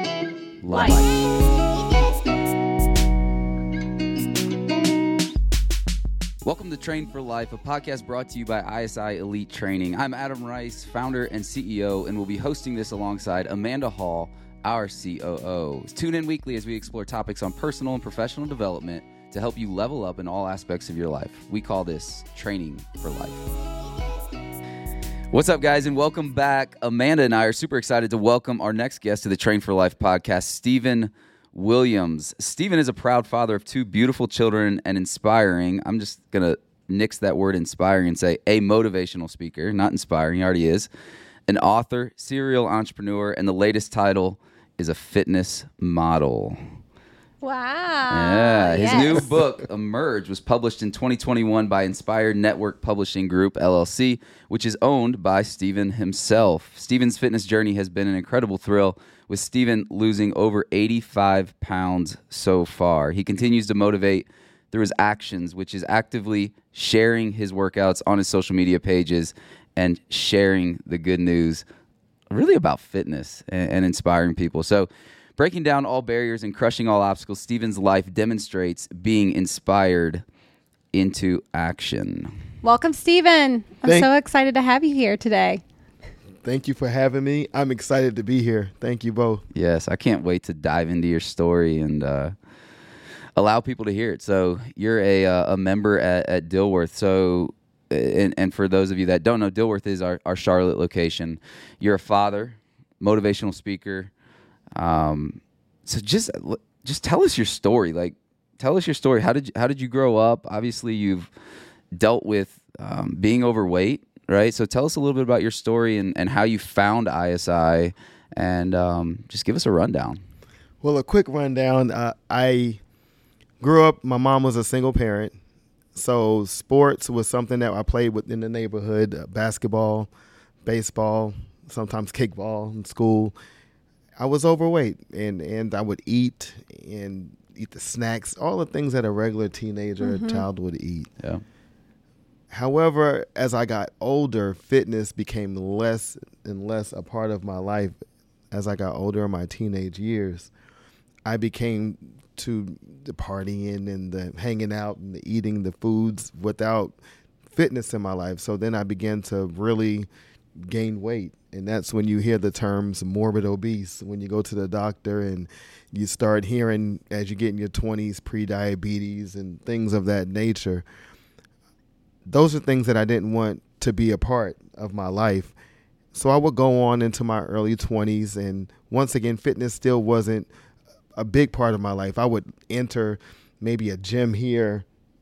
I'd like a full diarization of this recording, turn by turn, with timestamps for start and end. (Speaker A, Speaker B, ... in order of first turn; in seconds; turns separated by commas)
Speaker A: 0.6-1.3, Speaker B: 0.7-1.0, Speaker A: 6.4-23.5, Speaker A: 25.3-40.9, Speaker A: 41.5-46.6, Speaker B: 47.4-49.4, Speaker A: 48.1-71.7, Speaker A: 72.3-80.2, Speaker A: 80.9-82.3, Speaker B: 82.6-85.6, Speaker C: 86.4-89.4, Speaker A: 89.5-92.3, Speaker A: 93.4-104.1, Speaker A: 104.8-111.3, Speaker A: 111.9-120.2, Speaker C: 120.8-122.8, Speaker C: 123.6-125.4, Speaker C: 126.0-130.1, Speaker C: 130.6-133.3, Speaker C: 134.2-141.1, Speaker B: 140.0-140.4, Speaker C: 142.5-148.0, Speaker C: 148.5-150.5, Speaker C: 151.2-157.0, Speaker C: 157.5-160.1, Speaker C: 160.6-170.8, Speaker C: 172.3-175.6, Speaker C: 176.1-180.5, Speaker C: 181.2-184.8